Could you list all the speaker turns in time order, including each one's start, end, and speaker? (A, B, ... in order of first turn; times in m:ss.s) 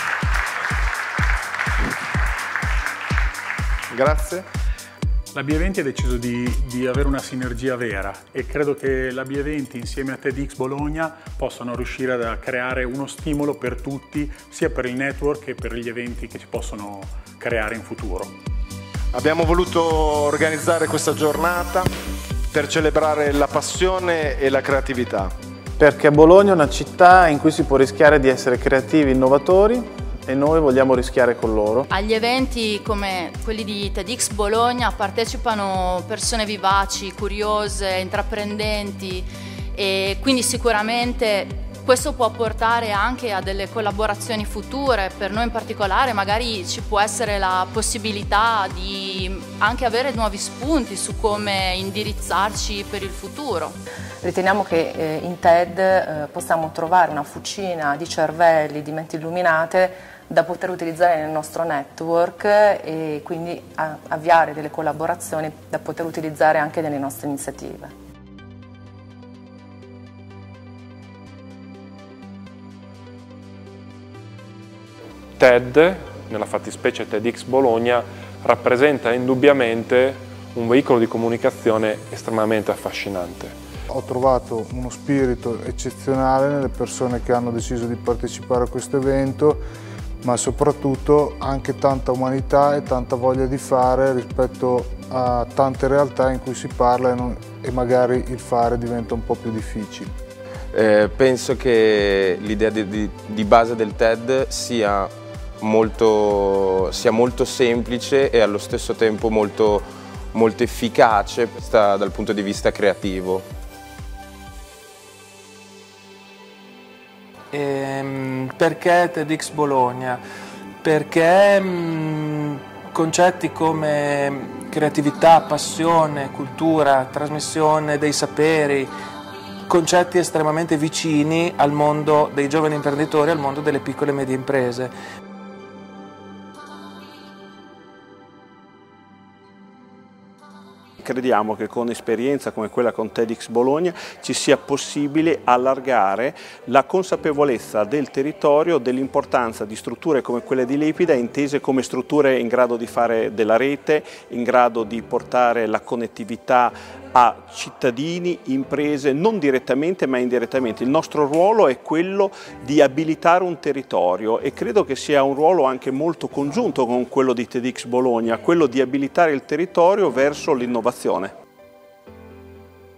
0:03.9-0:04.5 A
0:05.3-0:18.4 B
0:19.1-0:21.9 A
0:22.5-0:25.3 A
0:25.8-0:31.9 C
0:31.9-0:53.8 D
0:54.2-1:07.9 E
1:15.4-1:23.5 F
1:23.9-1:29.6 G
1:30.2-1:40.1 G
1:40.7-1:53.4 H
1:57.5-2:00.2 I
2:00.8-2:08.9 I
2:09.7-2:15.0 I
2:21.0-2:51.3 J